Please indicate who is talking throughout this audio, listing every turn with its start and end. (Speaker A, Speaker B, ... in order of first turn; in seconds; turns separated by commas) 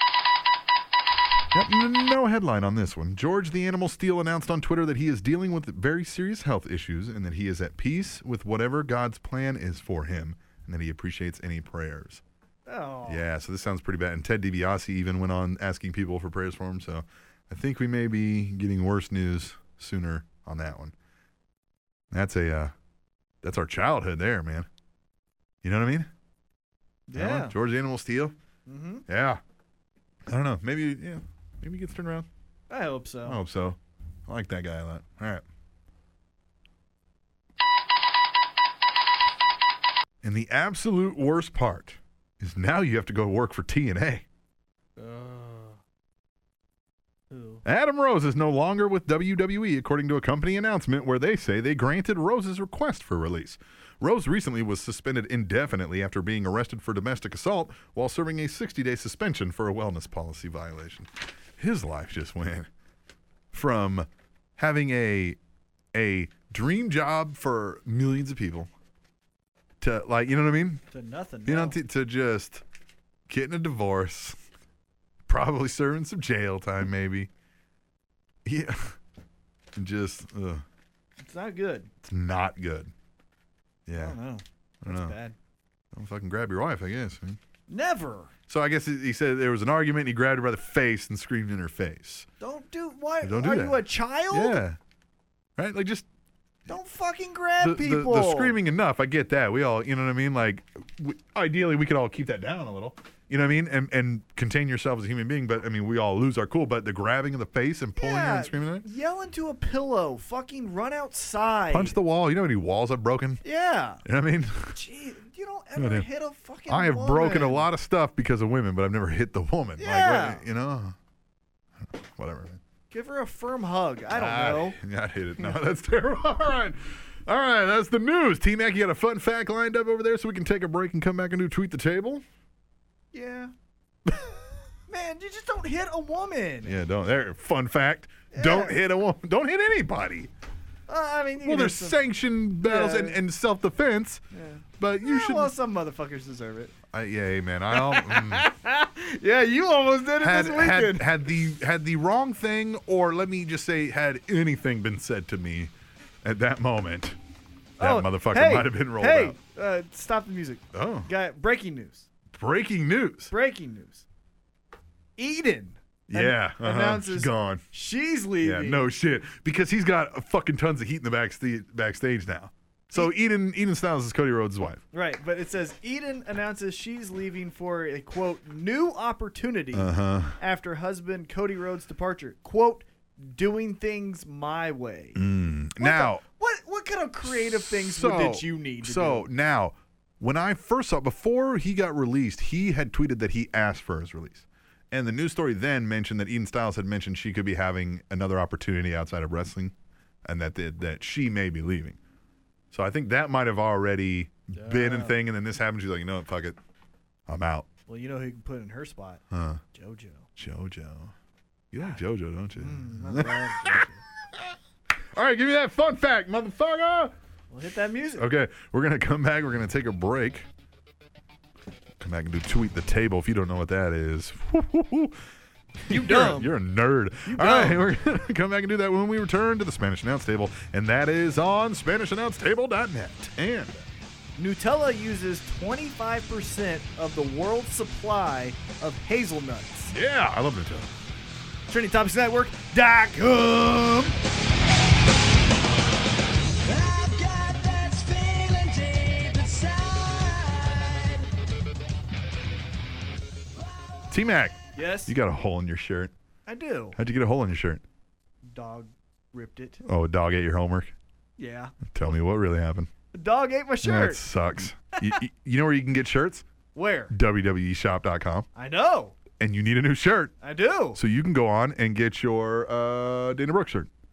Speaker A: 1.5-12.2, Speaker B: 12.7-13.2, Speaker A: 13.1-20.9, Speaker A: 22.1-22.7, Speaker A: 23.4-24.7, Speaker A: 25.6-26.1, Speaker B: 27.1-27.6, Speaker A: 27.1-28.4, Speaker B: 28.7-29.1, Speaker A: 29.1-29.4, Speaker A: 30.3-32.3, Speaker B: 32.7-33.4, Speaker A: 33.3-35.4, Speaker A: 40.2-44.2, Speaker B: 45.0-45.8, Speaker B: 47.3-47.6, Speaker A: 47.6-62.7, Speaker A: 63.5-65.4, Speaker A: 65.9-68.7, Speaker A: 69.8-70.8, Speaker B: 70.9-71.8, Speaker A: 71.5-72.6, Speaker A: 73.3-74.4, Speaker A: 75.3-77.3, Speaker A: 78.5-79.0, Speaker A: 79.8-80.6, Speaker B: 81.2-81.9, Speaker A: 82.0-82.9, Speaker A: 83.9-84.2, Speaker B: 84.0-85.4, Speaker A: 84.8-85.2, Speaker A: 85.9-87.4, Speaker B: 87.7-88.3, Speaker A: 88.5-92.3, Speaker B: 92.4-94.6, Speaker A: 93.2-94.8, Speaker A: 95.6-96.0, Speaker B: 96.7-98.6, Speaker A: 97.6-108.8, Speaker B: 108.0-112.0, Speaker A: 111.7-113.4, Speaker B: 113.4-114.0, Speaker A: 114.0-114.8, Speaker B: 114.7-117.7, Speaker A: 115.8-116.1, Speaker A: 116.7-121.0, Speaker B: 119.8-120.4, Speaker A: 121.8-122.6, Speaker B: 122.9-124.8, Speaker A: 124.1-132.2, Speaker B: 133.1-133.5, Speaker B: 134.9-136.8, Speaker A: 136.7-140.3, Speaker B: 138.3-138.8, Speaker B: 140.9-142.0, Speaker A: 141.4-144.2, Speaker B: 142.6-143.2, Speaker B: 144.3-146.7, Speaker A: 144.8-145.5, Speaker A: 146.9-148.5, Speaker B: 147.7-151.2, Speaker A: 150.2-155.7, Speaker A: 156.2-157.2, Speaker A: 157.8-159.4, Speaker B: 157.8-162.1, Speaker A: 160.7-161.1, Speaker A: 162.3-163.3, Speaker B: 163.3-164.1, Speaker B: 165.2-168.9, Speaker A: 166.1-167.6, Speaker A: 168.4-174.8, Speaker B: 174.9-185.2, Speaker A: 179.7-180.4, Speaker A: 185.2-186.2, Speaker B: 185.8-189.3, Speaker A: 187.3-199.7, Speaker A: 200.2-202.0, Speaker A: 202.7-206.6, Speaker B: 204.5-205.2, Speaker A: 207.3-207.7, Speaker B: 207.9-209.2, Speaker A: 209.3-209.6, Speaker B: 209.7-210.3, Speaker A: 210.4-211.1, Speaker A: 211.7-214.6, Speaker B: 212.6-214.0, Speaker A: 215.1-217.1, Speaker B: 217.5-218.3, Speaker A: 218.2-220.5, Speaker A: 222.0-225.2, Speaker A: 225.9-233.8, Speaker B: 225.9-226.5, Speaker B: 227.3-227.9, Speaker B: 234.4-239.9, Speaker A: 239.9-240.9, Speaker B: 241.7-244.2, Speaker C: 246.7-250.8, Speaker B: 249.5-250.0, Speaker A: 254.1-256.1, Speaker B: 254.7-255.1, Speaker B: 256.5-257.0, Speaker A: 257.0-257.8, Speaker B: 258.5-259.8, Speaker A: 259.8-260.9, Speaker B: 261.4-261.8, Speaker A: 261.9-262.9, Speaker B: 263.1-264.2, Speaker A: 263.8-266.4, Speaker B: 266.7-267.1, Speaker A: 267.1-268.5, Speaker B: 268.6-269.2, Speaker A: 269.4-270.3, Speaker B: 270.4-271.0, Speaker A: 271.0-273.9